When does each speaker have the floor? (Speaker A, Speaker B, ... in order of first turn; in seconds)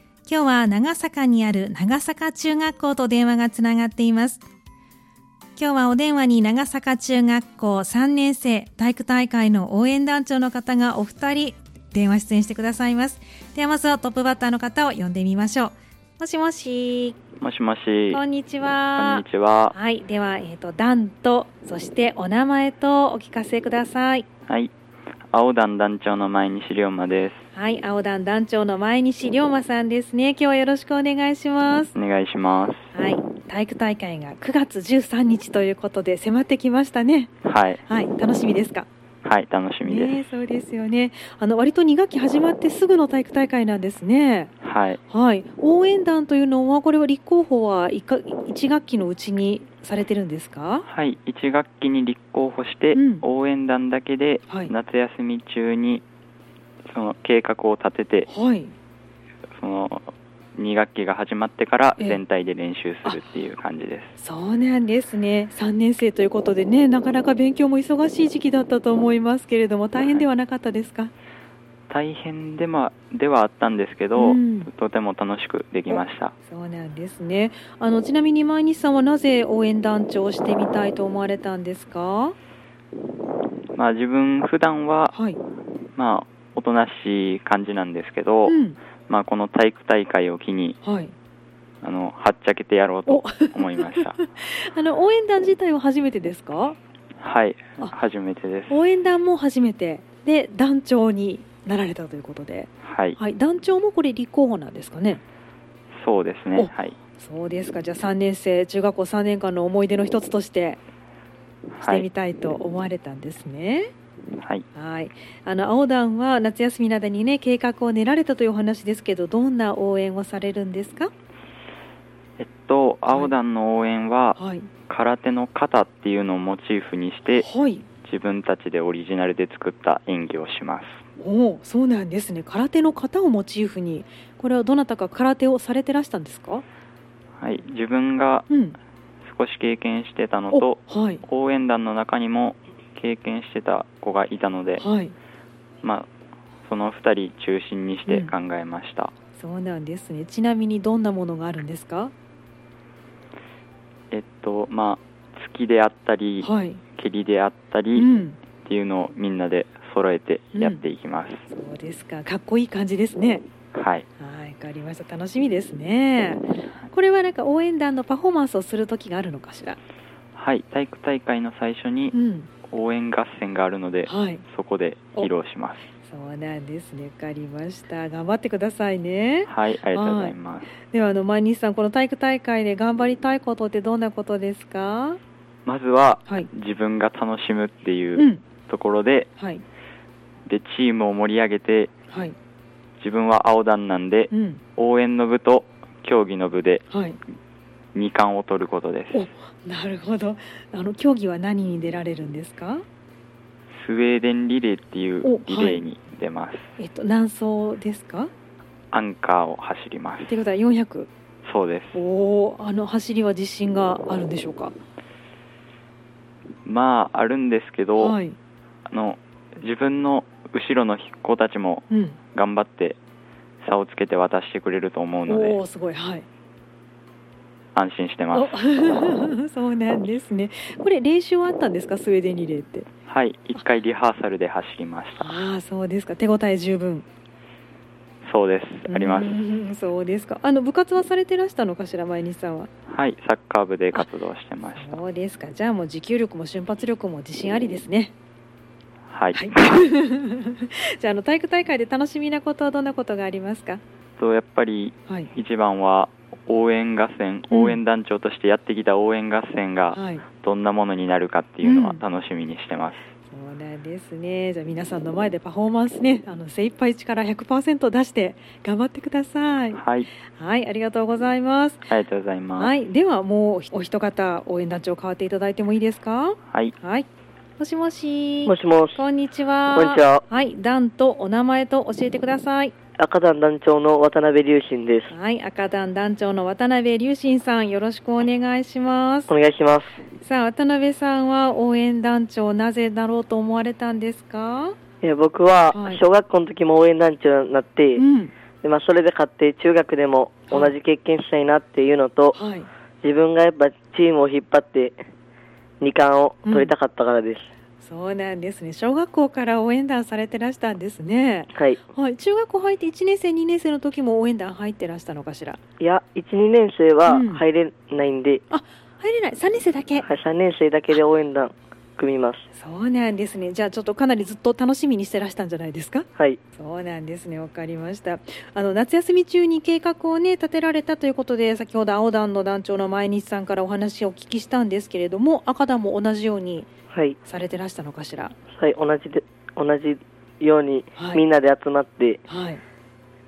Speaker A: 0.2-4.4, 5.6-17.2, 18.1-24.2, 27.5-31.9, 32.9-37.3, 37.9-38.9, 39.8-44.5, 45.1-50.9, 52.9-53.2, 58.2-58.7, 64.2-71.1, 74.1-74.7, 75.9-82.3, 85.1-85.4, 88.5-88.8, 90.8-91.1, 93.1-96.8, 98.7-105.2, 106.5-110.8, 111.8-113.9, 114.7-121.1, 124.3-124.7, 127.3-127.8, 131.2-136.6, 138.5-138.8, 140.5-141.2, 144.8-145.1, 148.1-148.3, 149.3-152.1, 156.4-156.8, 157.9-158.4, 160.5-160.8, 161.5-163.4, 164.2-169.8, 172.1-172.5, 174.0-174.4, 176.0-185.2, 188.1-188.4, 189.3-189.6, 192.1-192.3, 194.3-194.6, 196.9-197.2, 199.1-202.8, 205.2-205.8, 206.8-208.3, 210.3-211.1, 211.9-214.7, 217.9-218.3, 221.9-222.2, 225.2-226.2, 228.3-232.9, 235.2-237.1, 238.9-242.7, 244.8-248.1, 249.3-253.8, 255.1-255.3, 257.5-257.8, 259.9-260.2, 261.6-262.0, 263.3-271.9, 272.6-277.1, 277.6-282.7, 285.1-289.3, 290.2-294.8, 295.7-296.0, 297.9-298.3, 302.3-302.7, 306.4-306.7, 307.8-315.6, 317.1-317.4, 318.5-320.1, 322.5-336.7, 337.2-338.4, 340.9-341.2, 342.3-342.6
Speaker B: 17.4-18.2, 18.9-19.7, 24.5-24.7, 25.3-27.4, 31.9-32.8, 37.4-37.8, 39.2-40.2, 44.6-45.0, 50.9-56.0, 56.9-58.3, 59.6-64.2, 70.0-70.2, 71.9-76.3, 83.7-85.1, 86.0-90.8, 91.8-94.2, 97.2-98.8, 102.8-103.2, 106.0-106.9, 111.7-112.0, 114.4-114.6, 122.4-124.4, 124.9-127.5, 128.0-131.0, 137.4-138.5, 139.2-144.8, 145.8-146.1, 146.6-149.1, 154.1-158.1, 158.6-161.4, 163.7-164.1, 170.3-172.1, 172.7-175.8, 179.4-180.7, 185.7-189.3, 190.5-191.9, 193.0-196.8, 197.9-199.2, 203.7-206.7, 208.9-210.4, 211.4-212.0, 216.6-218.2, 218.9-223.0, 223.6-225.6, 227.7-228.5, 233.1-235.3, 238.2-239.3, 242.9-245.0, 249.1-249.8, 254.2-263.0, 269.7-270.1, 271.9-272.7
Speaker C: 278.4-279.0, 279.7-280.2, 283.0-285.1, 289.3-289.9, 295.0-298.0, 298.6-302.4, 303.0-304.9, 305.8-307.5, 311.5-311.8, 315.8-318.4, 320.0-322.4, 336.9-337.2, 338.5-342.2